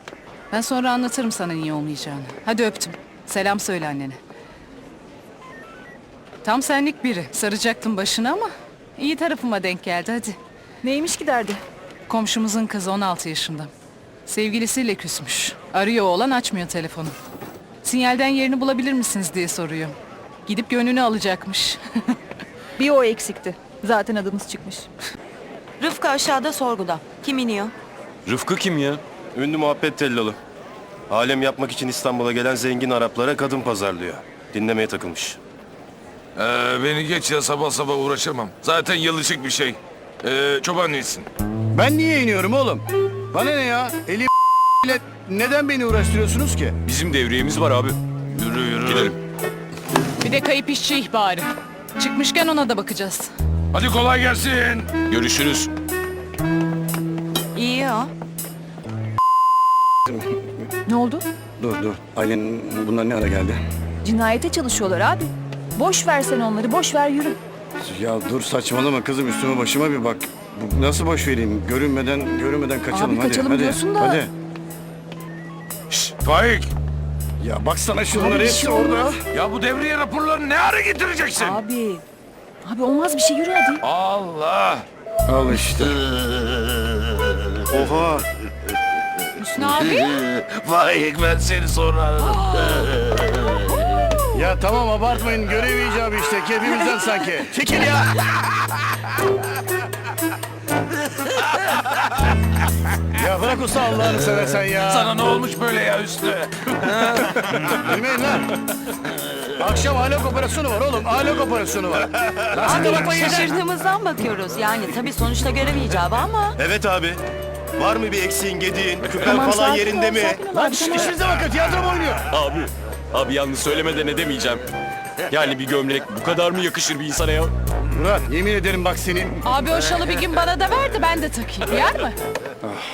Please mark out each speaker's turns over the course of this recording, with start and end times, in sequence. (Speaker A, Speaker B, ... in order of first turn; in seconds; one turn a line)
Speaker A: 0.5-4.2
Speaker A: 6.4-10.4
Speaker B: 10.8-11.6
Speaker A: 12.1-13.7
Speaker A: 14.2-17.1
Speaker A: 17.8-22.1
Speaker B: 22.8-24.9
Speaker C: 25.8-27.7
Speaker D: 28.2-29.0
Speaker E: 29.3-30.4
Speaker E: 31.1-35.4
Speaker F: 36.4-41.3
Speaker G: 41.7-44.3
Speaker G: 44.8-46.7
Speaker D: 46.8-48.0
Speaker F: 48.3-49.1
Speaker D: 48.8-49.1
Speaker A: 50.2-53.3
Speaker F: 53.7-54.9
Speaker D: 55.1-55.7
Speaker C: 57.5-58.1
Speaker B: 60.9-61.2
Speaker G: 61.6-63.6
Speaker B: 64.0-67.4
Speaker G: 67.8-74.3
Speaker B: 72.9-74.2
Speaker F: 75.9-76.7
Speaker G: 77.4-79.2
Speaker B: 78.1-79.1
Speaker F: 79.3-81.5
Speaker B: 81.3-82.0
Speaker B: 82.6-83.8
Speaker F: 83.8-84.8
Speaker G: 85.3-86.0
Speaker G: 87.7-88.2
Speaker A: 89.4-90.2
Speaker F: 90.4-92.9
Speaker G: 94.3-98.2
Speaker G: 103.2-105.1
Speaker F: 104.9-106.7
Speaker G: 107.7-108.5
Speaker G: 109.6-113.6
Speaker C: 112.7-116.5
Speaker E: 116.6-117.2
Speaker E: 117.8-120.4
Speaker B: 119.2-121.1
Speaker G: 120.5-122.2
Speaker A: 120.5-121.1
Speaker D: 122.3-124.7
Speaker D: 125.3-127.5
Speaker G: 128.0-129.4
Speaker A: 129.4-132.2